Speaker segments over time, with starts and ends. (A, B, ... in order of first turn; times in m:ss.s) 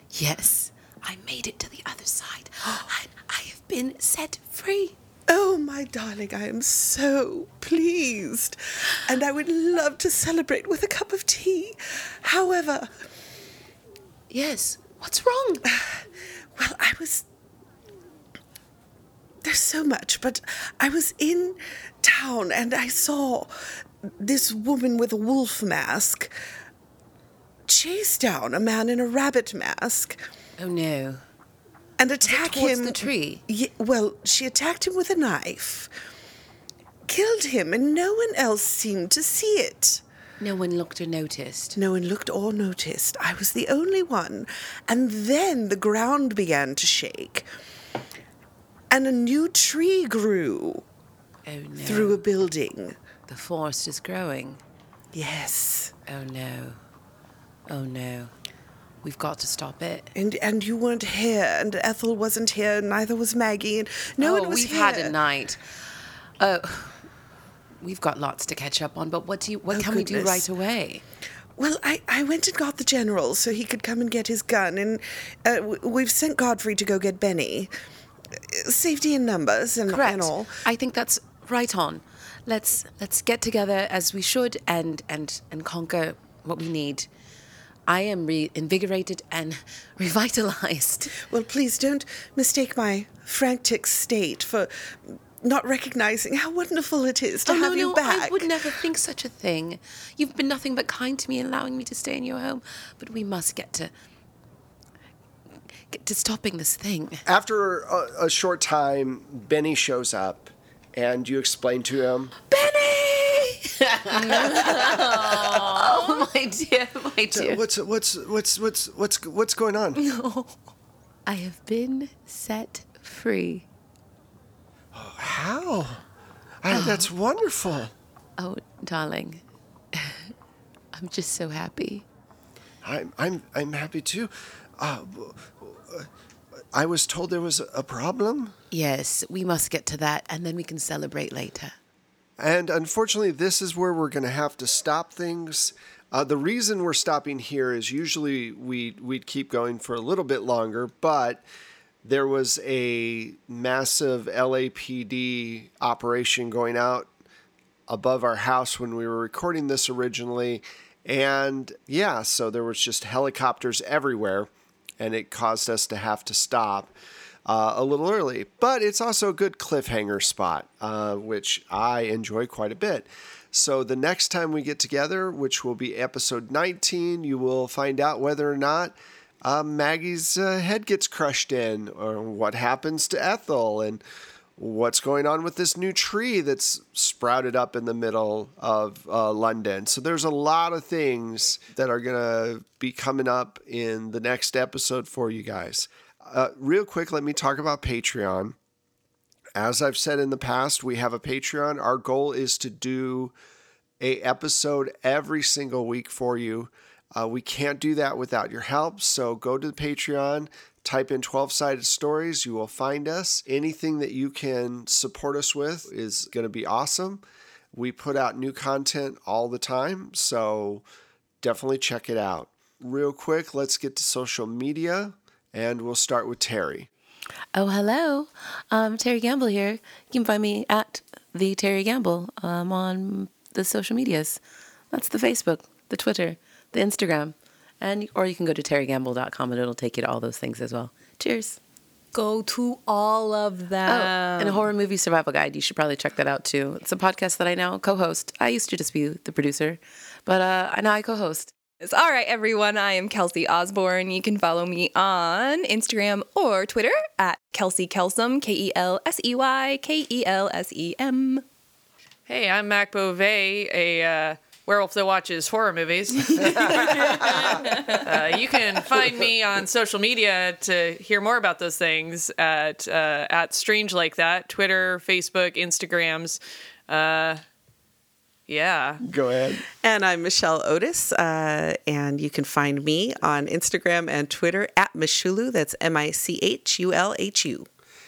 0:00.1-0:05.0 A
0:05.3-0:12.9 B
0:14.3-0:15.6 A
0:15.7-0:16.0 B
0:16.6-0:17.2 B
0:19.4-0:23.5 B
0:24.0-0:26.3 B
0:27.7-0:30.2 B
0:30.6-0:31.2 A
0:32.0-0:35.9 B
0:32.2-0:33.4 A
0:37.1-0:40.0 B
0:40.4-0:41.8 A
0:41.8-0:47.5 B
0:48.9-0:50.8 B
0:51.5-0:52.2 A
0:51.8-0:53.0 B
0:53.3-0:54.6 A
0:55.1-0:55.9 B
0:56.1-0:56.8 A
0:57.7-0:58.3 A
0:59.0-1:00.1 A
1:00.2-1:05.2 B
1:04.2-1:05.6 A
1:06.4-1:07.0 A
1:07.8-1:11.0 A
1:09.7-1:10.5 B
1:11.6-1:17.7 B
1:18.4-1:20.6 B
1:19.9-1:27.1 A
1:27.9-1:31.2 A
1:31.1-1:38.8 B
1:37.5-1:43.9 A
1:45.9-1:47.2 A
1:47.3-1:52.3 C
1:52.5-1:57.6 A
1:54.1-1:56.3 D
1:57.3-2:00.1 C
2:00.2-2:00.5 D
2:01.3-2:03.7 A
2:04.9-2:06.0 C
2:06.6-2:07.9 C
2:06.7-2:07.1 A
2:08.4-2:09.4 A
2:09.9-2:10.3 A
2:10.9-2:12.0 A
2:12.8-2:16.1 C
2:16.7-2:18.6 C
2:18.7-2:21.8 A
2:22.4-2:31.4 C
2:32.0-2:37.1 C
2:37.9-2:46.9 C
2:47.5-3:04.0 C
3:04.6-3:18.6 C
3:19.6-3:23.3 C
3:24.0-3:40.8 C
3:41.4-3:46.9 C
3:47.5-4:01.6 A
4:02.1-4:04.7 D
4:03.9-4:11.5 A
4:11.8-4:21.4 D
4:22.3-4:37.4 E
4:26.4-4:27.4 C
4:26.8-4:28.1 D
4:38.5-4:39.0 E
4:39.0-4:39.6 C
4:39.7-4:47.7 B